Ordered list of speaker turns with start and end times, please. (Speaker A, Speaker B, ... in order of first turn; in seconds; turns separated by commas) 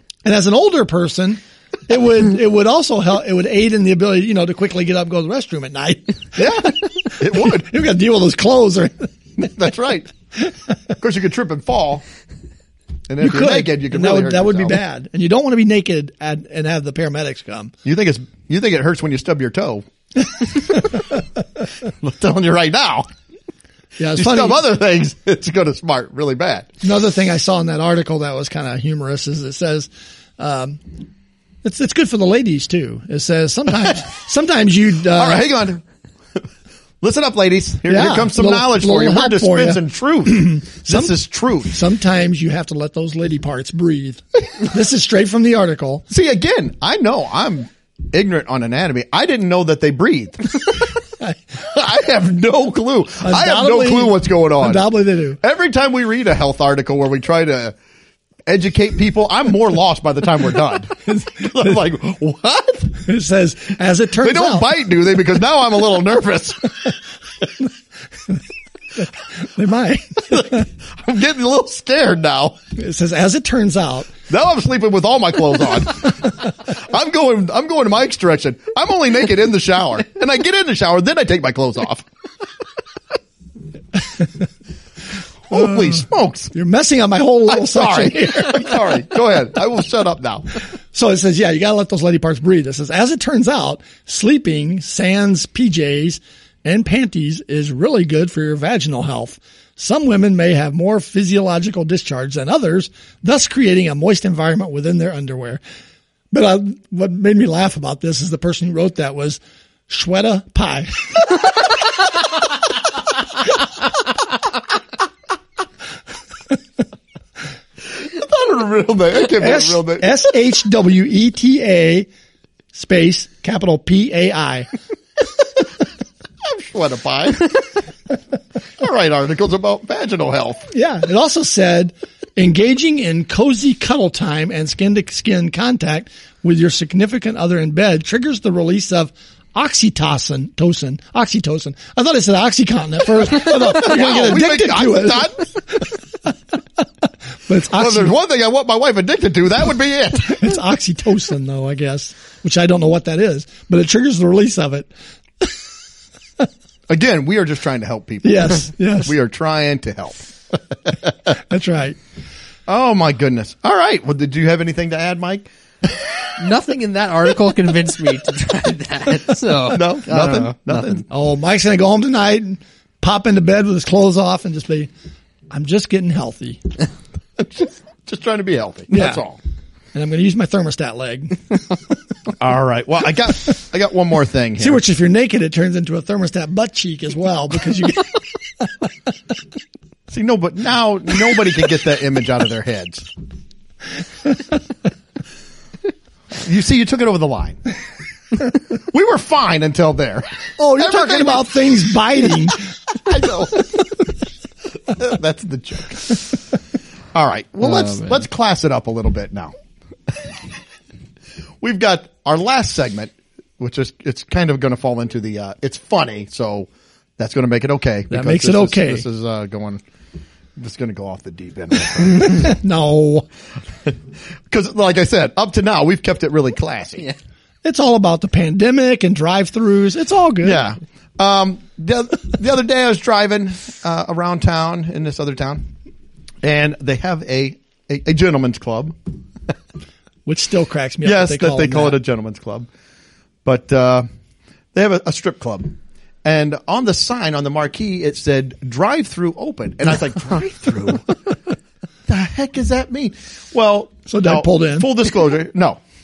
Speaker A: 0.2-6.8, Speaker B: 6.4-7.7, Speaker A: 7.4-9.1, Speaker B: 9.4-10.1, Speaker B: 11.0-12.0, Speaker B: 13.1-14.8, Speaker A: 13.2-17.7, Speaker B: 17.8-21.0, Speaker B: 21.8-23.1, Speaker A: 24.0-24.6, Speaker B: 24.1-26.7, Speaker A: 26.8-30.8, Speaker A: 31.6-35.4, Speaker B: 35.1-35.8, Speaker B: 37.0-41.7, Speaker A: 37.9-41.1, Speaker A: 41.7-46.0, Speaker B: 46.1-51.0, Speaker B: 51.6-57.8, Speaker A: 53.2-55.4, Speaker B: 58.5-63.0, Speaker A: 63.0-64.7, Speaker B: 64.2-66.9, Speaker A: 69.4-70.6, Speaker B: 70.3-72.6, Speaker A: 72.8-74.1, Speaker B: 74.3-82.0, Speaker B: 85.5-86.5, Speaker A: 86.5-88.8, Speaker B: 87.5-90.5, Speaker A: 90.9-105.6, Speaker A: 106.3-111.4, Speaker B: 117.9-120.2, Speaker A: 119.4-122.1, Speaker A: 122.7-124.7, Speaker B: 126.4-127.7, Speaker B: 128.8-130.7, Speaker A: 130.7-145.4, Speaker B: 143.3-145.8, Speaker A: 147.5-148.1, Speaker B: 147.7-150.6, Speaker A: 150.2-154.9, Speaker B: 156.9-161.3, Speaker A: 158.2-159.1, Speaker A: 161.5-162.0, Speaker B: 162.7-166.3, Speaker C: 166.4-171.0, Speaker B: 169.7-171.0, Speaker A: 171.1-174.9, Speaker A: 175.5-176.6, Speaker B: 177.4-179.4, Speaker A: 178.9-179.2, Speaker A: 179.9-181.6, Speaker B: 182.4-184.8, Speaker A: 184.6-188.1, Speaker B: 190.1-193.1, Speaker B: 196.4-197.6, Speaker B: 198.7-201.7, Speaker A: 200.6-202.6, Speaker B: 202.2-203.9, Speaker B: 204.8-206.4, Speaker B: 207.1-209.5, Speaker C: 207.7-208.2, Speaker B: 210.1-210.4, Speaker B: 211.6-219.8, Speaker A: 218.1-219.0, Speaker B: 220.6-222.5, Speaker A: 222.2-223.2, Speaker B: 223.8-227.1, Speaker A: 227.6-230.6, Speaker B: 230.4-235.7, Speaker B: 236.4-239.1, Speaker A: 240.2-242.0, Speaker B: 241.0-242.7, Speaker B: 243.4-244.1, Speaker B: 244.7-251.2, Speaker B: 252.1-255.8, Speaker A: 254.1-254.9